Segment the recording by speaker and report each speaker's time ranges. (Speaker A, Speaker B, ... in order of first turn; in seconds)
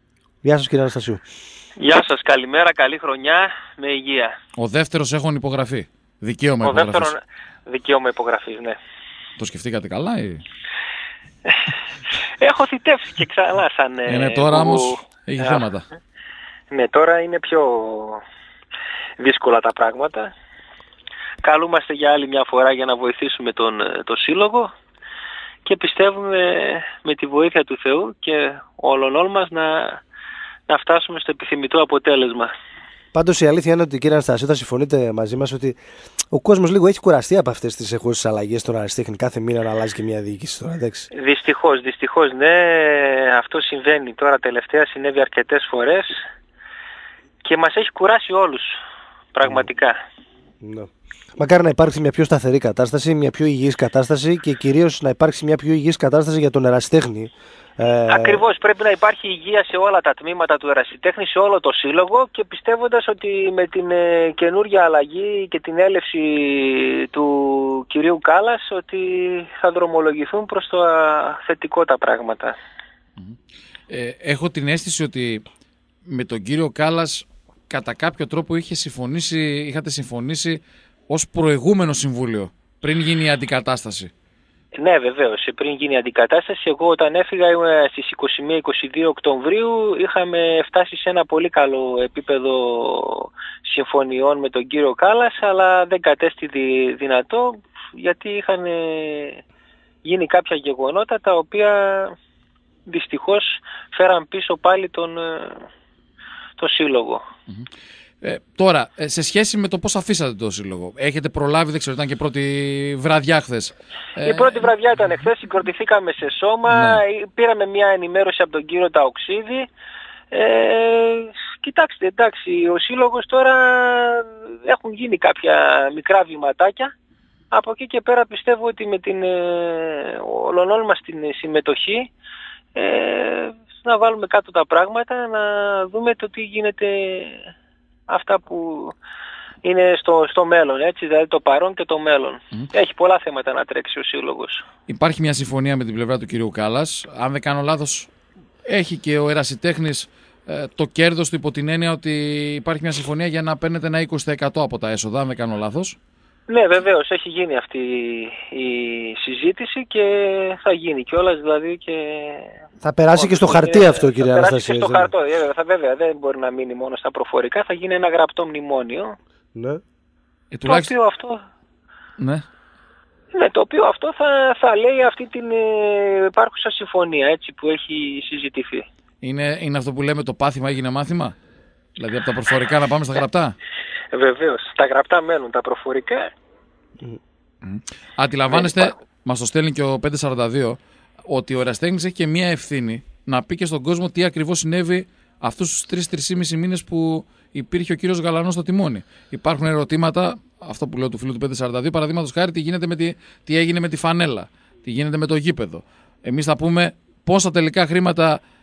Speaker A: 0.4-1.2, 33.1-35.8, 36.3-41.1, 50.6-58.4, 162.8-165.1, 169.5-169.8
Speaker B: 1.8-4.3, 6.6-8.8, 11.4-11.7, 12.4-15.7, 16.7-18.2, 19.2-20.3, 21.4-24.7, 25.6-30.0, 30.7-32.5, 41.1-46.1, 47.4-48.8, 49.3-49.9, 58.1-72.6, 84.8-99.4, 100.0-102.1, 102.9-105.7, 106.6-107.2, 114.2-119.7, 120.3-126.9, 127.5-132.1, 132.7-137.5, 138.1-138.9, 139.6-144.6, 156.5-162.5, 163.1-169.1, 170.7-171.4, 173.3-178.8, 184.1-186.3, 188.5-188.9
Speaker C: 4.6-7.1, 9.4-10.4, 14.1-15.8, 73.9-75.4, 76.1-84.1, 108.2-114.7, 116.7-117.0, 144.9-148.1, 148.7-155.9, 170.5-170.9, 179.2-181.3, 182.0-183.5, 187.6-208.4